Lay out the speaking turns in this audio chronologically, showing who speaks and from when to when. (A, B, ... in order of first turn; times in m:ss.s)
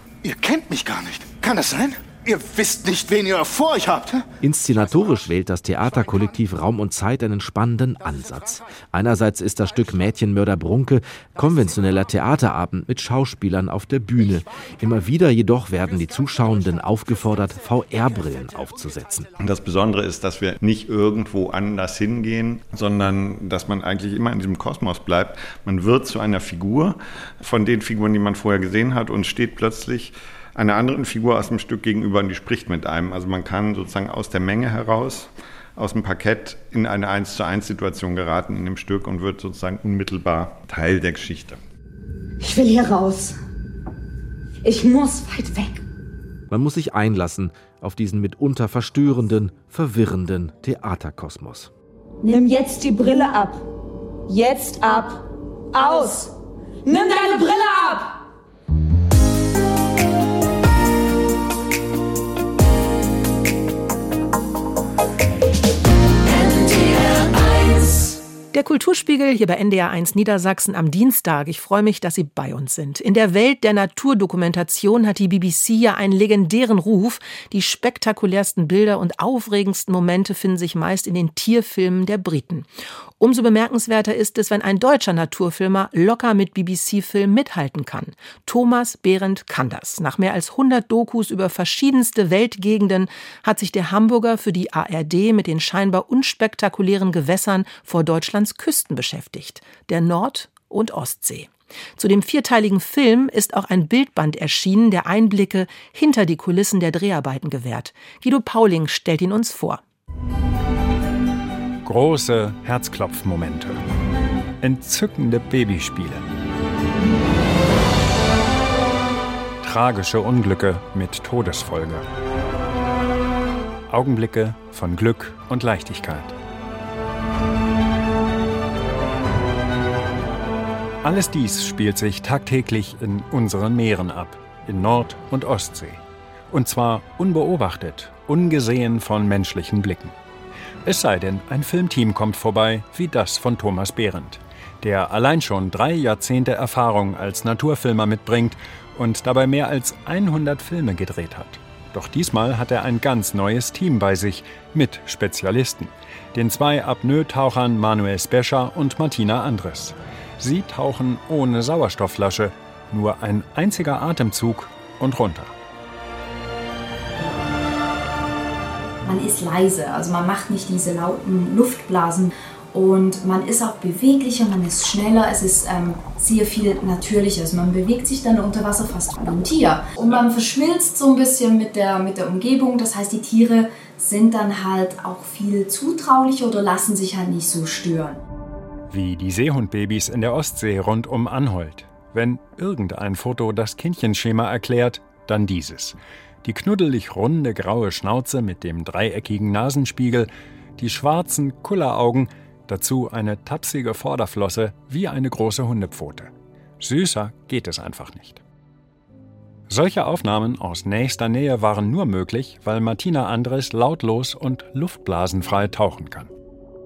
0:00.2-0:04.4 A
0:04.4-0:19.3 B
0:19.4-0:41.6 C
0:42.4-0:43.3 D
0:44.6-0:45.8 D
0:46.5-0:51.7 B
0:52.2-0:53.6 D
0:54.3-0:56.3 D
0:56.8-0:58.1 D
1:07.5-1:07.8 D
1:08.5-1:49.8 E
1:51.8-1:53.8 F
1:54.6-1:56.2 F
1:59.6-2:02.0 F
2:03.9-2:06.4 F
2:11.0-2:20.1 F
2:20.8-2:45.5 F
2:49.0-3:08.2 G
3:08.9-3:28.4 F
3:29.7-3:36.3 F